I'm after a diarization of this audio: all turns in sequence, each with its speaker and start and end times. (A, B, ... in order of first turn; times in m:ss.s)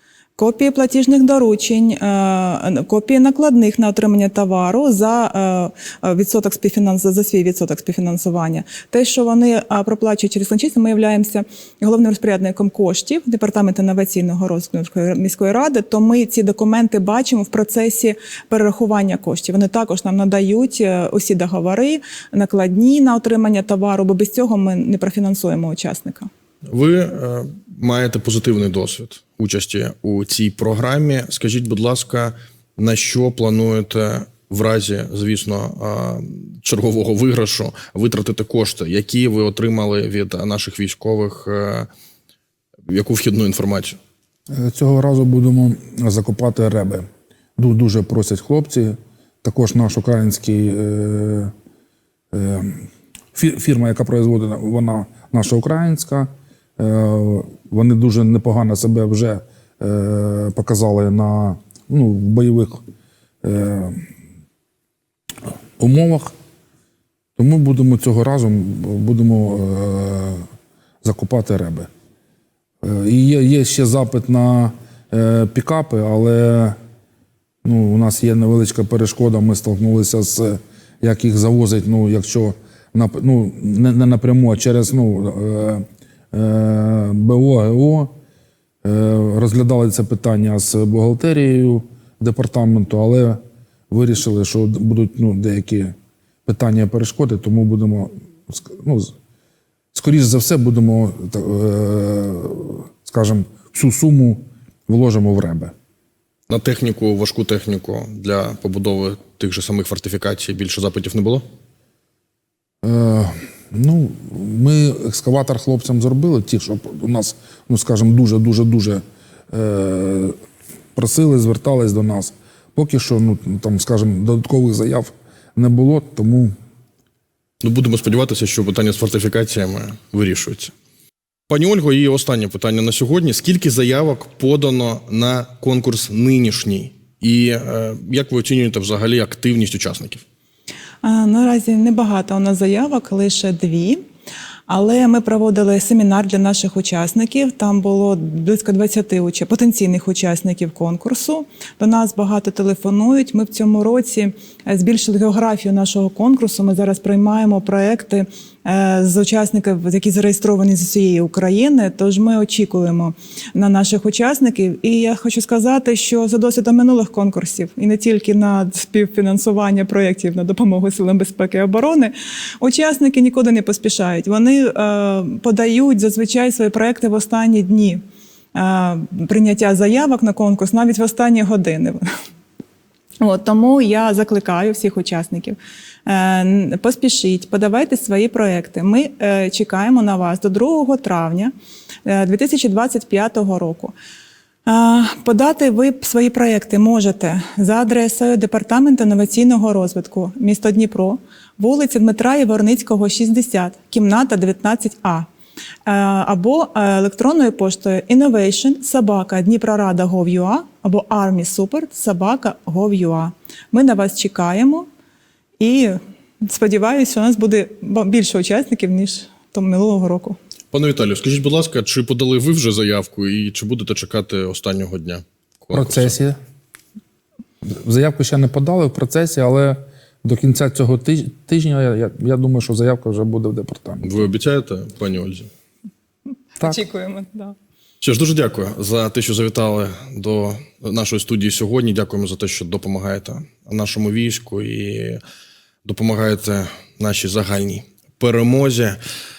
0:00.4-0:26.3 A
0:26.7-0:41.9 B
0:42.9-0:44.0 B
0:44.5-0:47.0 C
0:47.6-0:51.5 C
0:52.3-1:02.8 C
1:03.4-1:04.0 C
1:05.8-1:06.3 C
1:07.4-1:10.4 C
1:11.0-1:11.9 C
1:12.8-1:16.8 C
1:17.6-1:28.1 C
1:28.8-1:35.9 C
1:36.4-1:39.1 C
1:39.9-1:45.7 C
1:46.5-1:51.4 B
1:52.8-2:00.3 C
2:00.9-2:06.5 C
2:07.6-2:10.7 B
2:11.5-2:20.2 B
2:21.0-2:24.0 A
2:24.7-2:58.0 A
2:58.5-3:02.0 A
3:03.2-3:11.5 A
3:12.0-3:13.9 A
3:14.6-3:25.3 A
3:25.8-3:34.8 A
3:35.6-3:40.4 A
3:40.7-3:46.2 B
3:45.7-3:46.4 C
3:47.6-3:54.3 C
3:54.0-3:55.5 B
3:56.6-3:57.6 A
3:58.0-4:05.2 B
4:05.8-4:09.0 B